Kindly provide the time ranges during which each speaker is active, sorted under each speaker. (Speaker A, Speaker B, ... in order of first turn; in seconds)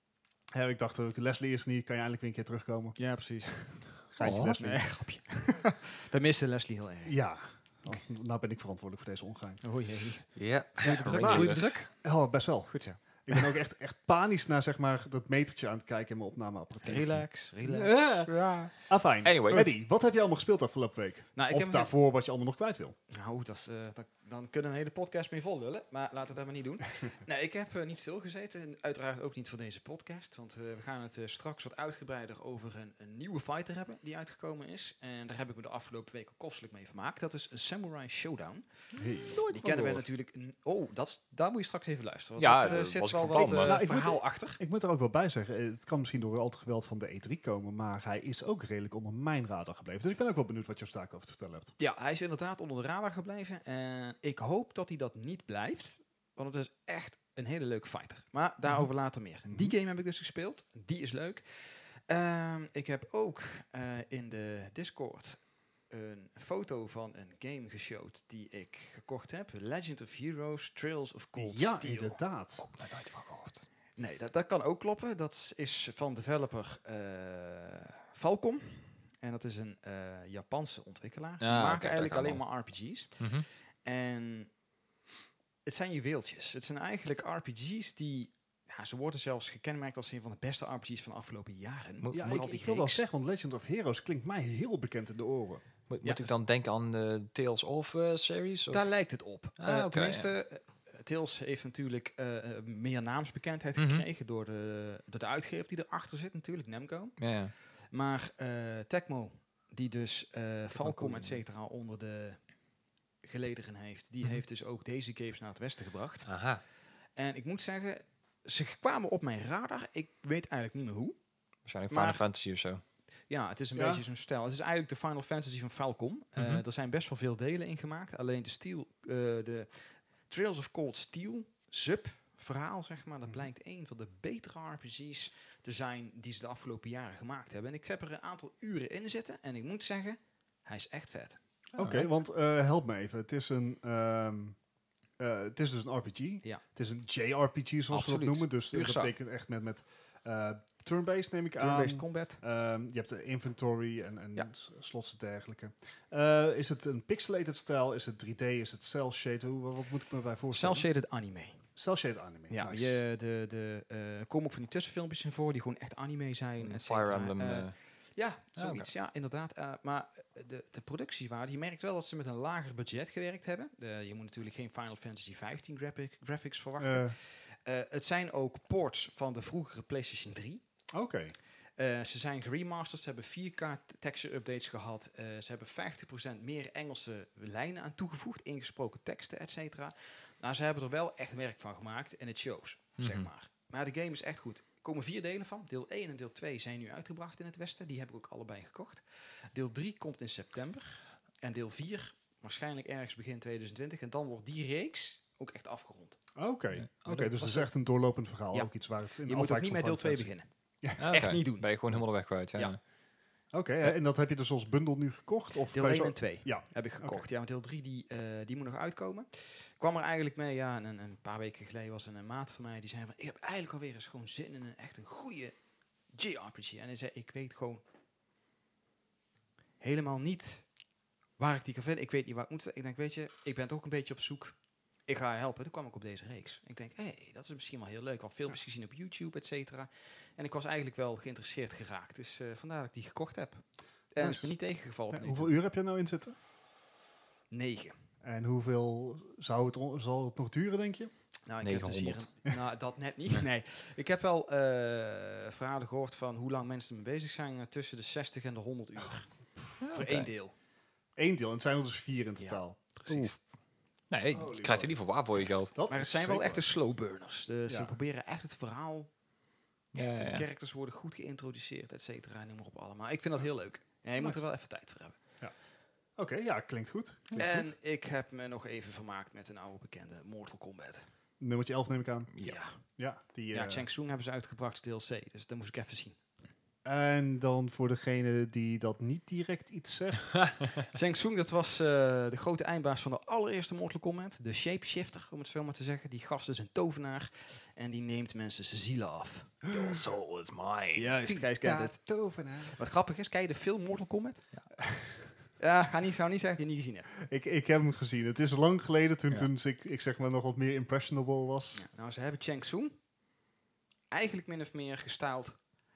Speaker A: 0.5-4.8, 7.0-9.6, 11.0-17.1, 17.6-22.9, 39.0-39.4, 43.3-51.7, 71.4-72.6, 92.1-95.6, 123.8-124.0, 141.8-144.6, 145.2-160.9, 161.8-163.0, 176.8-177.1, 180.9-181.3, 206.3-210.3, 213.5-217.2, 244.2-244.5, 245.1-246.3, 248.2-251.1, 259.0-259.7, 261.1-263.3, 264.3-264.9, 265.7-266.6, 267.7-267.9, 276.2-277.7, 281.4-282.3, 282.9-283.9, 286.8-290.6, 299.7-300.0, 301.2-302.8, 304.9-305.2, 307.2-311.8
Speaker B: 3.0-3.8, 4.6-7.2, 9.6-11.9, 12.7-13.5, 16.8-18.7, 21.4-21.9, 23.1-38.6, 39.4-44.6, 51.8-72.2, 74.0-83.2, 83.8-84.5, 85.6-93.0, 96.0-96.3, 98.7-107.2, 107.9-112.4, 113.2-116.3, 117.2-121.2, 121.9-122.2, 123.3-141.4, 147.9-149.1, 151.6-152.4, 160.5-161.6, 162.5-180.6, 181.8-206.2, 207.2-207.6, 209.2-210.5, 211.0-211.7, 215.7-225.6, 226.1-227.8, 229.8-230.7, 231.4-234.6, 235.1-245.5, 247.5-247.9, 251.5-259.3, 259.9-260.5, 262.4-263.3, 265.9-269.1, 269.9-275.2, 277.4-281.1, 282.4-282.8, 283.5-286.2, 290.9-299.9, 300.9-302.0, 302.6-304.4, 305.6-307.1, 311.7-312.9, 314.1-315.6
Speaker C: 4.2-4.6, 10.3-11.7, 19.2-19.7, 39.2-40.0, 42.4-43.8, 72.6-73.7, 81.4-82.4, 83.2-83.5, 92.0-92.5, 95.9-98.8, 99.6-100.3, 103.8-104.0, 107.2-107.5, 110.8-111.4, 116.2-116.6, 121.7-122.8, 126.4-126.6, 141.8-142.1, 166.6-167.8, 168.6-168.9, 193.0-193.3, 211.0-212.8, 251.6-252.3, 259.8-260.3, 264.1-265.7, 269.9-270.4, 282.3-282.6, 299.7-301.1